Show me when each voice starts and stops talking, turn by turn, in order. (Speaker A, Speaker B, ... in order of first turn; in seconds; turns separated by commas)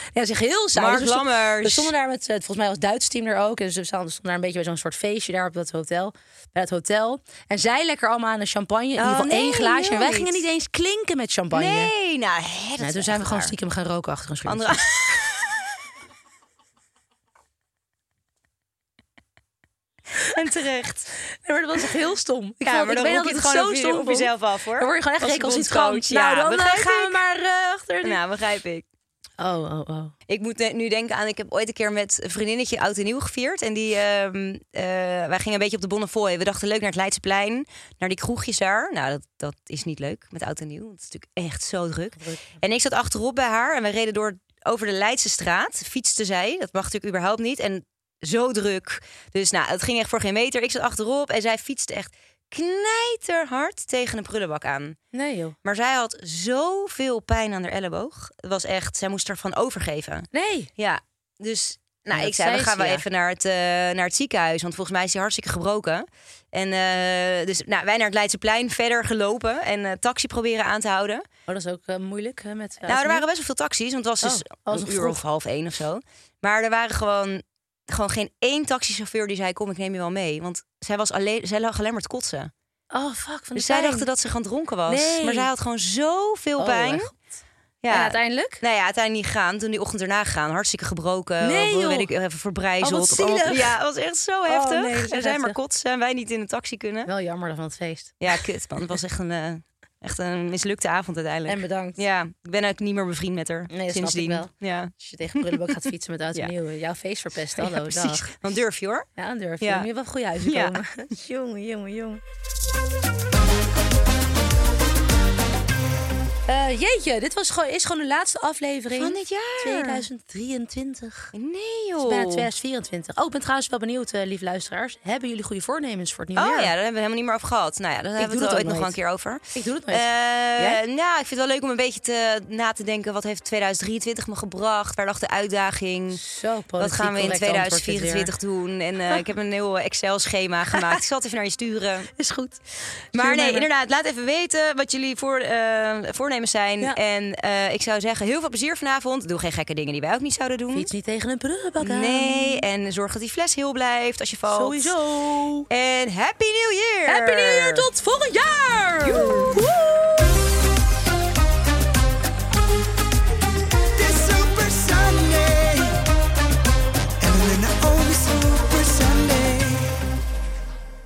Speaker A: 0.1-11.9, Speaker B: 0.8-1.9, Speaker B: 9.0-10.4, Speaker B: 11.5-13.5, Speaker A: 12.8-14.8, Speaker B: 14.5-15.4, Speaker B: 20.1-21.1, Speaker A: 21.3-28.2, Speaker B: 22.6-27.2, Speaker B: 28.0-28.9, Speaker A: 29.4-30.1, Speaker B: 30.3-55.0, Speaker A: 42.2-42.6, Speaker A: 55.1-55.6, Speaker B: 55.6-71.2, Speaker A: 60.3-60.7, Speaker A: 62.1-63.0, Speaker A: 71.5-73.2, Speaker B: 72.9-82.5, Speaker A: 74.2-75.2, Speaker A: 82.9-84.1, Speaker B: 83.6-87.1, Speaker A: 84.9-85.5, Speaker A: 86.6-87.3, Speaker B: 87.8-97.1, Speaker A: 87.9-88.6, Speaker A: 91.4-92.1, Speaker A: 92.8-93.8, Speaker A: 94.5-95.6, Speaker A: 97.1-98.4, Speaker B: 98.2-106.5, Speaker A: 101.5-102.0, Speaker A: 103.7-108.3, Speaker B: 107.6-109.1, Speaker A: 109.2-112.2, Speaker B: 109.6-109.9, Speaker B: 110.4-110.8, Speaker A: 116.5-121.3, Speaker B: 118.9-120.0, Speaker B: 121.3-122.5, Speaker A: 122.0-126.7, Speaker B: 126.3-136.2, Speaker A: 128.2-129.0, Speaker A: 129.6-130.8, Speaker A: 136.1-138.3, Speaker B: 136.8-142.1, Speaker A: 140.7-141.0, Speaker A: 142.2-142.6, Speaker A: 143.1-143.7, Speaker B: 143.1-150.9, Speaker A: 150.7-152.6, Speaker B: 151.8-154.9, Speaker A: 154.5-155.7, Speaker B: 155.7-157.9, Speaker A: 157.1-160.4, Speaker B: 159.0-159.5, Speaker C: 164.0-165.9, Speaker C: 167.2-170.0